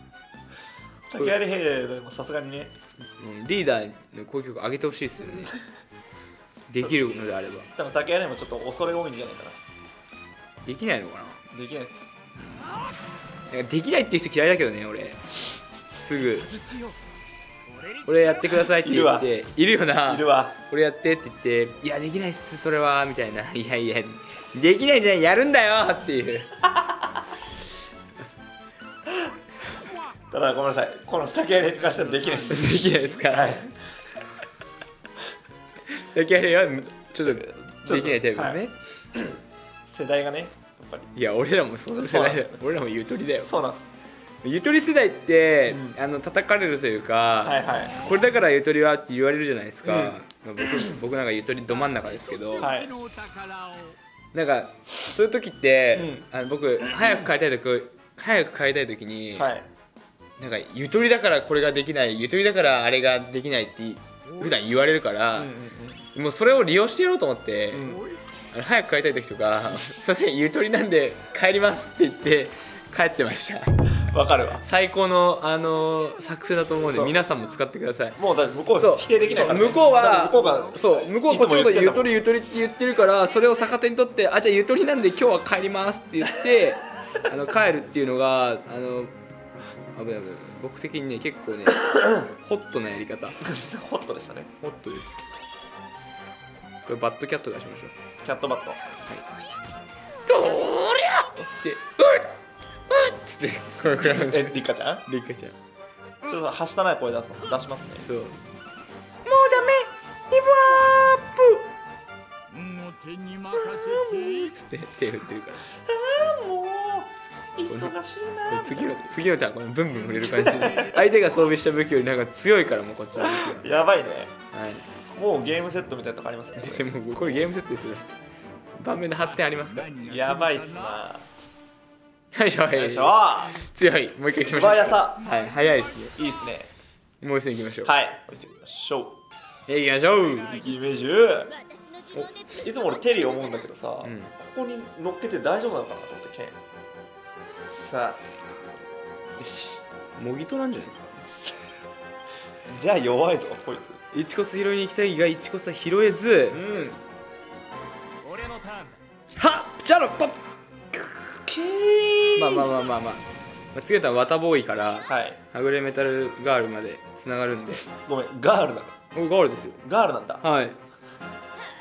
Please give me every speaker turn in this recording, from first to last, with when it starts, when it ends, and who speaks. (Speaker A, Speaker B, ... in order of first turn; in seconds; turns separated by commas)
Speaker A: 1.1-2.7, Speaker B: 3.2-5.5, Speaker B: 6.7-7.7, Speaker A: 7.7-9.6, Speaker B: 10.6-11.4, Speaker A: 11.5-12.1, Speaker B: 12.4-12.7, Speaker B: 13.5-15.2, Speaker B: 15.9-16.6, Speaker B: 18.1-26.6, Speaker A: 18.6-19.3, Speaker A: 20.0-20.5, Speaker A: 30.3-33.8, Speaker B: 32.4-33.7, Speaker B: 35.9-38.8, Speaker A: 37.2-38.6, Speaker A: 39.9-41.1, Speaker B: 41.1-43.5, Speaker A: 41.9-42.6, Speaker A: 43.3-43.9, Speaker B: 44.4-52.7, Speaker A: 45.7-46.0, Speaker A: 47.4-48.0, Speaker A: 49.8-50.2, Speaker A: 52.6-52.9, Speaker C: 52.7-54.0, Speaker B: 54.3-59.5, Speaker A: 55.9-56.2, Speaker A: 59.4-59.7, Speaker B: 60.4-65.5, Speaker A: 65.3-66.0, Speaker B: 66.1-67.9, Speaker A: 67.7-68.1, Speaker B: 68.5-73.7, Speaker A: 74.1-74.6, Speaker B: 74.6-78.2, Speaker A: 76.9-77.1, Speaker A: 78.2-82.2, Speaker B: 78.7-89.2, Speaker B: 89.9-93.4, Speaker A: 93.4-94.5, Speaker B: 94.6-95.2, Speaker B: 96.8-97.9, Speaker A: 98.2-98.8, Speaker B: 100.3-102.3, Speaker B: 102.9-105.5, Speaker A: 104.0-105.0, Speaker A: 106.2-108.1, Speaker B: 108.0-108.4, Speaker B: 109.2-111.7, Speaker C: 112.5-114.3, Speaker B: 113.5-115.7, Speaker A: 115.7-119.2, Speaker B: 117.7-117.9, Speaker B: 118.5-123.7, Speaker A: 120.3-120.9, Speaker A: 123.2-124.3, Speaker B: 124.5-124.8, Speaker A: 125.1-126.9, Speaker B: 126.6-128.2, Speaker B: 128.8-130.0, Speaker C: 129.9-130.6, Speaker A: 130.0-131.3, Speaker B: 132.3-136.1, Speaker A: 132.7-133.5, Speaker A: 134.3-135.2, Speaker A: 136.2-136.7, Speaker B: 137.2-137.9, Speaker A: 137.8-139.2, Speaker B: 139.7-140.6, Speaker A: 140.5-141.6, Speaker B: 142.1-142.5, Speaker A: 142.5-146.6, Speaker B: 144.0-144.3, Speaker A: 147.7-148.3, Speaker B: 149.4-151.2, Speaker A: 152.7-154.0, Speaker B: 154.1-156.6, Speaker A: 156.5-157.0, Speaker C: 158.2-158.9, Speaker B: 159.3-160.4, Speaker B: 160.9-161.4, Speaker A: 161.5-162.7, Speaker B: 162.3-167.9, Speaker A: 165.1-165.4, Speaker A: 168.1-168.9, Speaker B: 169.1-169.8, Speaker A: 169.8-170.4, Speaker B: 170.4-170.8